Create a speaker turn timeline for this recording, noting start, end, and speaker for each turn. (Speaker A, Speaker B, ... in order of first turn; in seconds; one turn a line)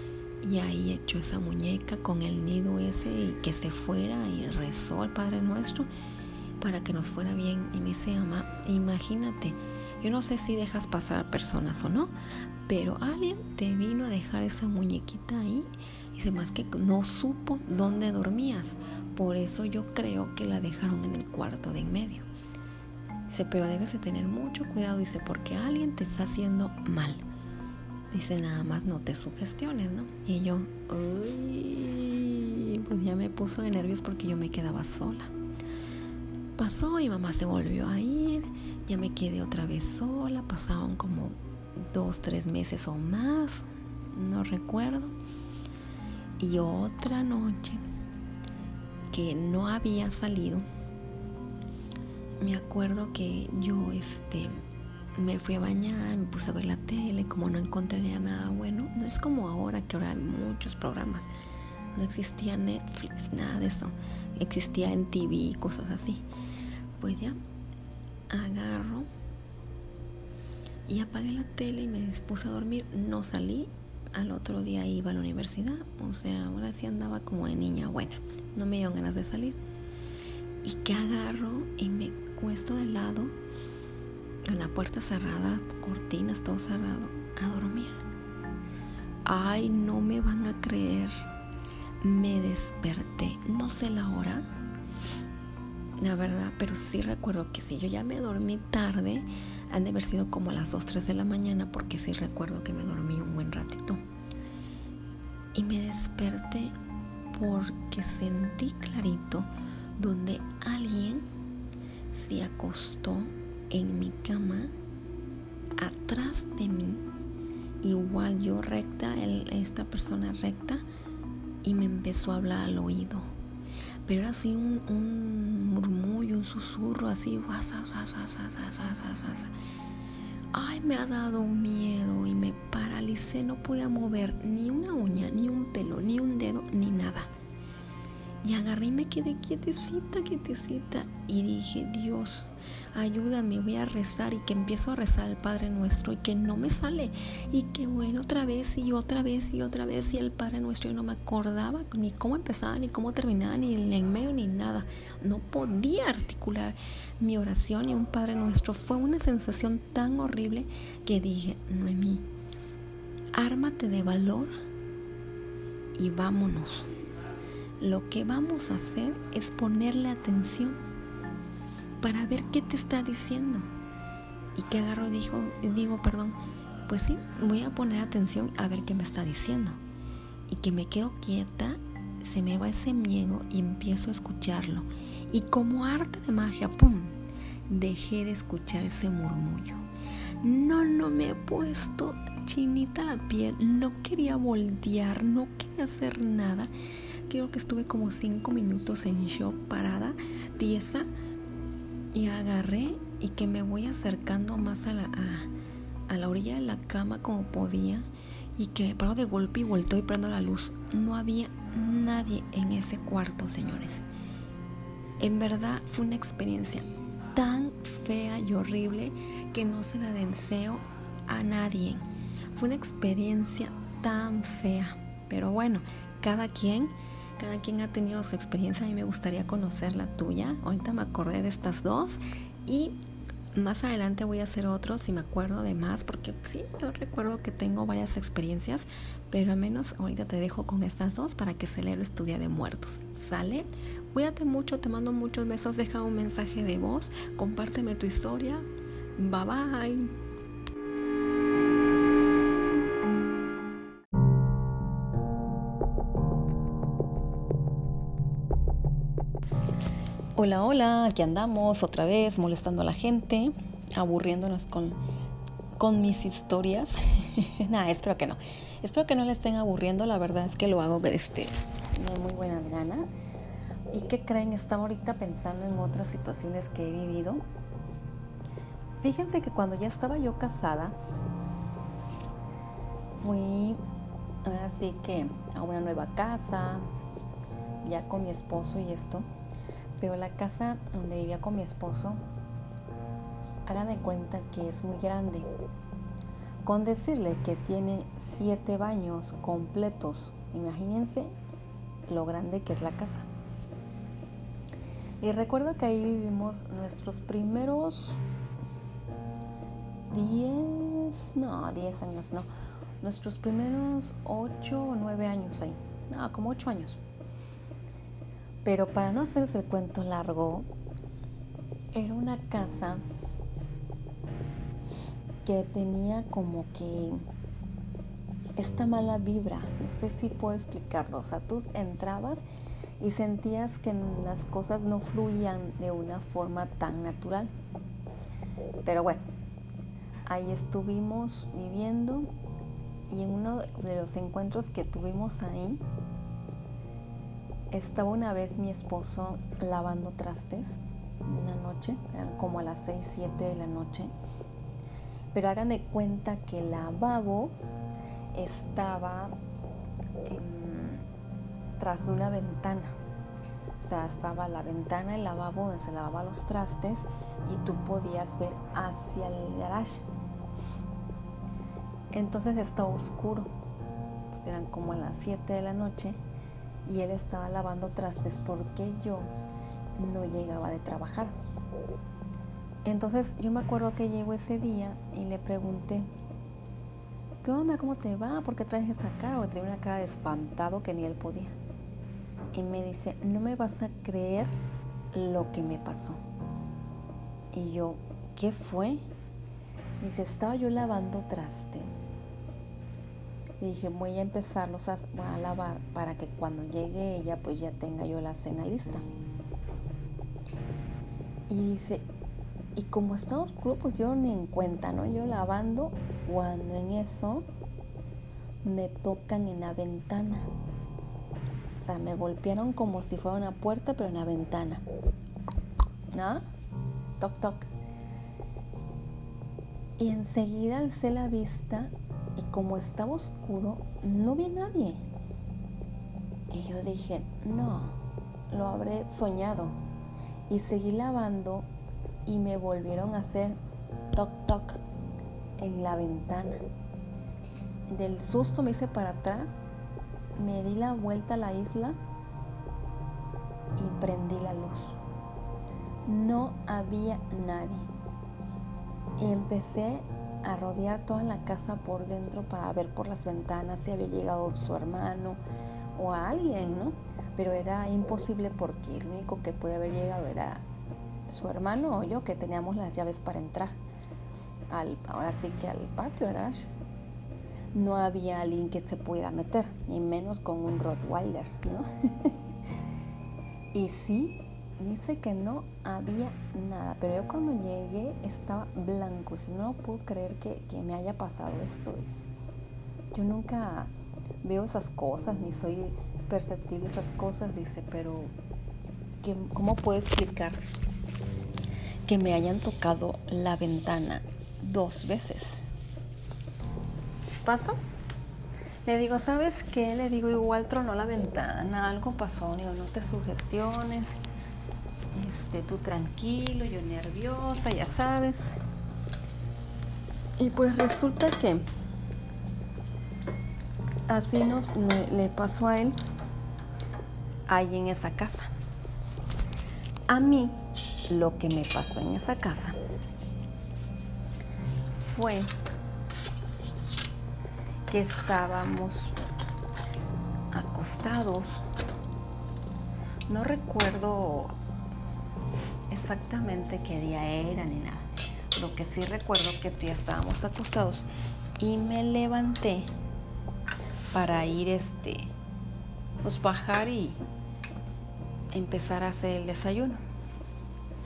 Speaker A: 0.4-5.9
Speaker A: 6.6-12.1
Speaker A: 12.7-22.3
Speaker A: 23.3-27.2
Speaker A: 28.1-35.3
Speaker A: 36.6-45.1
Speaker A: 46.4-47.8
Speaker A: 49.1-50.7
Speaker A: 52.4-54.6
Speaker A: 55.2-61.3
Speaker A: 62.0-66.2
Speaker A: 67.0-67.4
Speaker A: 68.3-69.1
Speaker A: 70.9-79.6
Speaker A: 80.6-83.3
Speaker A: 84.5-88.0
Speaker A: 89.2-91.2
Speaker A: 92.0-94.5
Speaker A: 96.0-104.0
Speaker A: 105.5-106.7
Speaker A: 107.3-111.2
Speaker A: 112.1-114.7
Speaker A: 115.8-117.0
Speaker A: 117.8-120.8
Speaker A: 121.6-123.3
Speaker A: 124.0-129.5
Speaker A: 130.5-137.3
Speaker A: 138.4-162.2
Speaker A: 163.3-164.5
Speaker A: 165.9-166.9
Speaker A: 167.8-170.8
Speaker A: 172.0-173.7
Speaker A: 174.6-179.8
Speaker A: 180.5-189.8
Speaker A: 190.4-196.7
Speaker A: 197.3-201.1
Speaker A: 202.1-205.5
Speaker A: 206.1-214.0
Speaker A: 215.2-233.0
Speaker A: 233.6-248.7
Speaker A: 249.2-250.1
Speaker A: 260.4-265.0
Speaker A: 265.8-273.1
Speaker A: 273.9-277.4
Speaker A: 279.0-280.9
Speaker A: 283.2-283.8
Speaker A: 284.4-286.9
Speaker A: 287.8-289.3
Speaker A: 290.0-292.2
Speaker A: 293.7-295.5
Speaker A: 296.6-301.3
Speaker A: 302.1-303.3
Speaker A: 305.2-308.2
Speaker A: 310.1-312.5
Speaker A: 313.0-317.0
Speaker A: 318.6-320.7
Speaker A: 321.9-323.0
Speaker A: 325.4-327.2
Speaker A: 328.6-332.4
Speaker A: 333.0-337.5
Speaker A: 338.8-339.2
Speaker A: 340.3-342.3
Speaker A: 343.1-345.8
Speaker A: 347.7-354.1
Speaker A: 355.3-357.5
Speaker A: 358.3-359.4
Speaker A: 360.2-361.1
Speaker A: 361.8-362.9
Speaker A: 363.8-370.1
Speaker A: 372.1-373.5
Speaker A: 374.3-376.2
Speaker A: 376.9-379.3
Speaker A: 380.0-381.3
Speaker A: 382.9-386.1
Speaker A: 387.4-391.6
Speaker A: 392.5-394.5
Speaker A: 395.1-396.2
Speaker A: 397.5-399.1
Speaker A: 400.0-401.9
Speaker A: 403.6-409.0
Speaker A: 411.5-412.1
Speaker A: 412.8-417.4
Speaker A: 418.6-420.5
Speaker A: 421.8-424.8
Speaker A: 426.1-426.4
Speaker A: 427.2-427.7
Speaker A: 430.0-435.0
Speaker A: 436.5-438.0
Speaker A: 438.5-439.8
Speaker A: 440.5-441.7
Speaker A: 442.3-443.6
Speaker A: 444.1-444.8
Speaker A: 445.6-446.6
Speaker A: 447.9-449.6
Speaker A: 450.4-452.0
Speaker A: 453.8-455.0
Speaker A: 456.1-457.9
Speaker A: 459.2-465.4
Speaker A: 465.9-470.6
Speaker A: 471.3-473.8
Speaker A: 474.7-476.7
Speaker A: 477.7-482.4
Speaker A: 483.7-492.2
Speaker A: 493.1-493.9
Speaker A: 494.4-498.3
Speaker A: 499.2-500.6
Speaker A: 502.1-505.6
Speaker A: 507.4-507.8
Speaker A: 508.9-514.1
Speaker A: 515.1-518.5
Speaker A: 520.4-521.6
Speaker A: 524.1-526.0
Speaker A: 527.5-528.5
Speaker A: 530.1-532.8
Speaker A: 535.0-535.5
Speaker A: 537.9-539.2
Speaker A: 540.5-541.6
Speaker A: 543.3-544.5
Speaker A: 545.9-551.1
Speaker A: 551.6-552.9
Speaker A: 554.1-555.3
Speaker A: 556.2-557.2
Speaker A: 558.5-560.0